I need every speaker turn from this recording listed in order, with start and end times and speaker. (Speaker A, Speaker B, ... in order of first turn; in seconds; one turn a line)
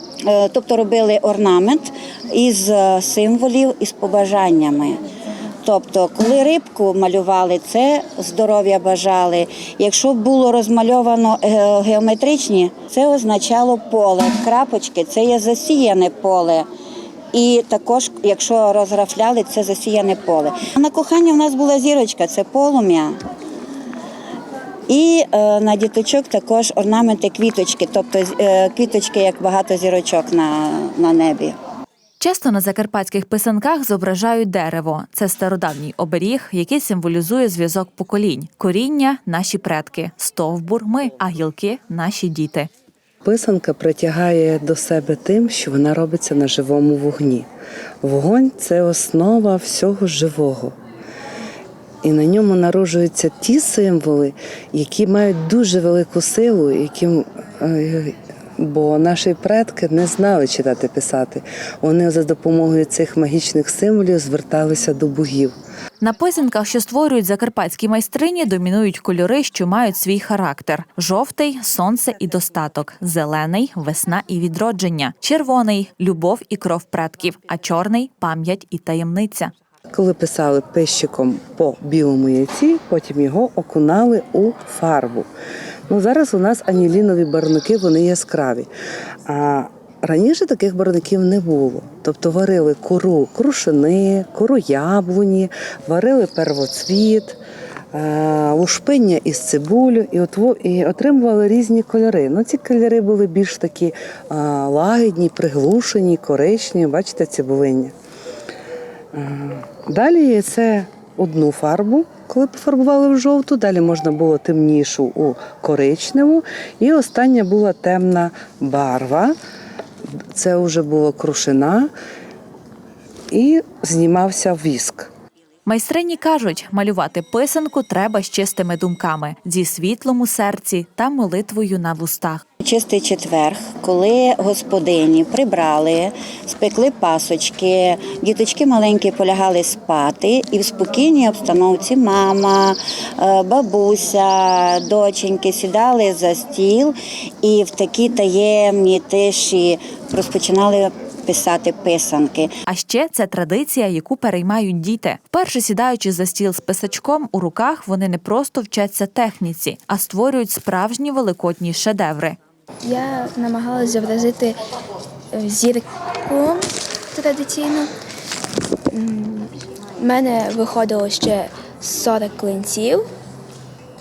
Speaker A: 0.2-5.0
Speaker A: 5.6-16.7
Speaker A: 17.3-23.2
Speaker A: 24.9-31.6
Speaker B: 32.2-42.7
Speaker C: 43.2-47.5
Speaker C: 48.0-50.8
Speaker C: 52.0-65.5
Speaker B: 66.0-79.5
Speaker C: 79.9-85.3
Speaker C: 85.9-88.7
Speaker C: 89.2-97.4
Speaker C: 97.9-107.9
Speaker C: 109.1-119.3
Speaker C: 120.3-121.9
Speaker C: 123.3-125.1
Speaker B: 125.7-132.4
Speaker A: 132.6-152.5
Speaker B: 152.7-162.4
Speaker D: 162.8-164.6
Speaker D: 165.3-167.9
Speaker D: 168.9-173.1